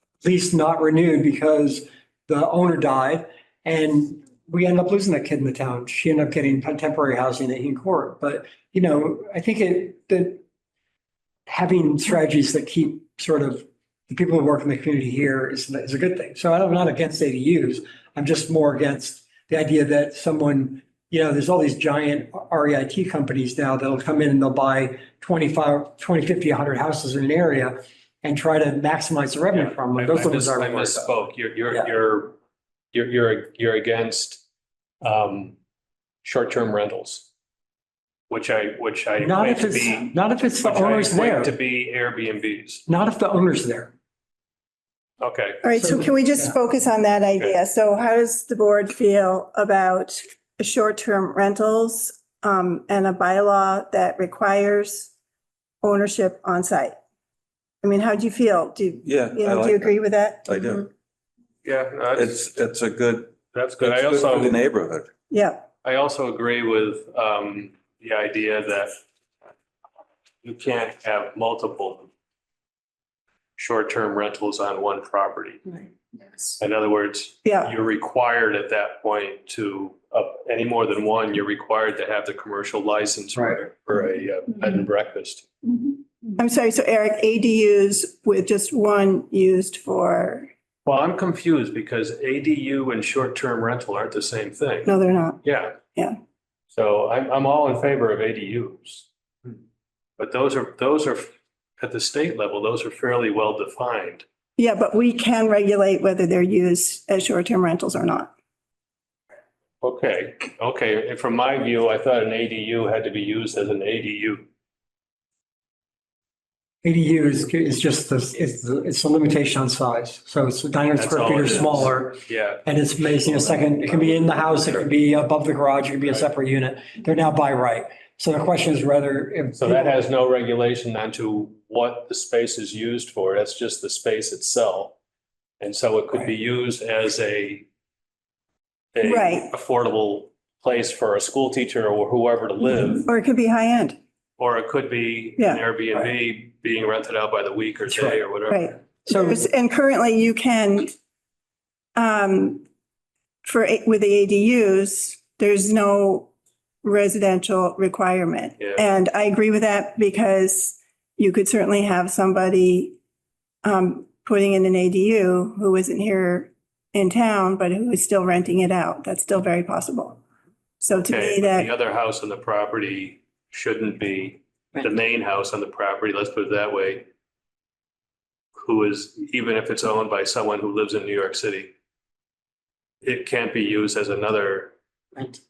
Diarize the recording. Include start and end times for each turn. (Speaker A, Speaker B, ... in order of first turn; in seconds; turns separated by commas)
Speaker A: 0.2-10.4, Speaker A: 11.5-31.2, Speaker B: 29.5-32.4, Speaker B: 32.9-34.4, Speaker B: 35.0-35.5, Speaker B: 36.2-37.3, Speaker B: 38.3-42.8, Speaker A: 39.2-41.5, Speaker A: 42.9-43.9, Speaker B: 45.2-45.6, Speaker C: 45.6-55.1, Speaker A: 45.8-46.5, Speaker C: 55.8-57.0, Speaker C: 57.8-60.8, Speaker D: 59.0-59.9, Speaker D: 60.5-60.9, Speaker B: 61.6-62.4, Speaker D: 62.1-65.1, Speaker B: 63.5-64.6, Speaker C: 65.3-65.7, Speaker B: 65.8-69.0, Speaker B: 70.4-72.1, Speaker B: 73.6-75.8, Speaker B: 76.5-85.5, Speaker C: 77.4-77.7, Speaker A: 83.3-83.6, Speaker C: 86.4-90.5, Speaker B: 90.8-95.8, Speaker C: 94.8-95.4, Speaker B: 96.7-99.1, Speaker B: 100.2-104.2, Speaker C: 104.6-108.3, Speaker B: 109.8-114.5, Speaker A: 116.8-129.9, Speaker B: 120.9-122.6, Speaker B: 129.6-134.9, Speaker B: 135.6-137.7, Speaker B: 138.9-143.1, Speaker C: 139.0-139.5, Speaker C: 142.9-144.0, Speaker B: 144.4-148.7, Speaker C: 145.4-145.6, Speaker A: 147.9-148.2, Speaker C: 148.5-150.9, Speaker C: 151.9-152.6, Speaker C: 153.4-156.3, Speaker C: 156.8-162.9, Speaker B: 158.6-158.9, Speaker C: 163.6-170.2, Speaker C: 170.8-171.7, Speaker B: 171.0-177.1, Speaker B: 178.6-181.7, Speaker B: 183.0-184.7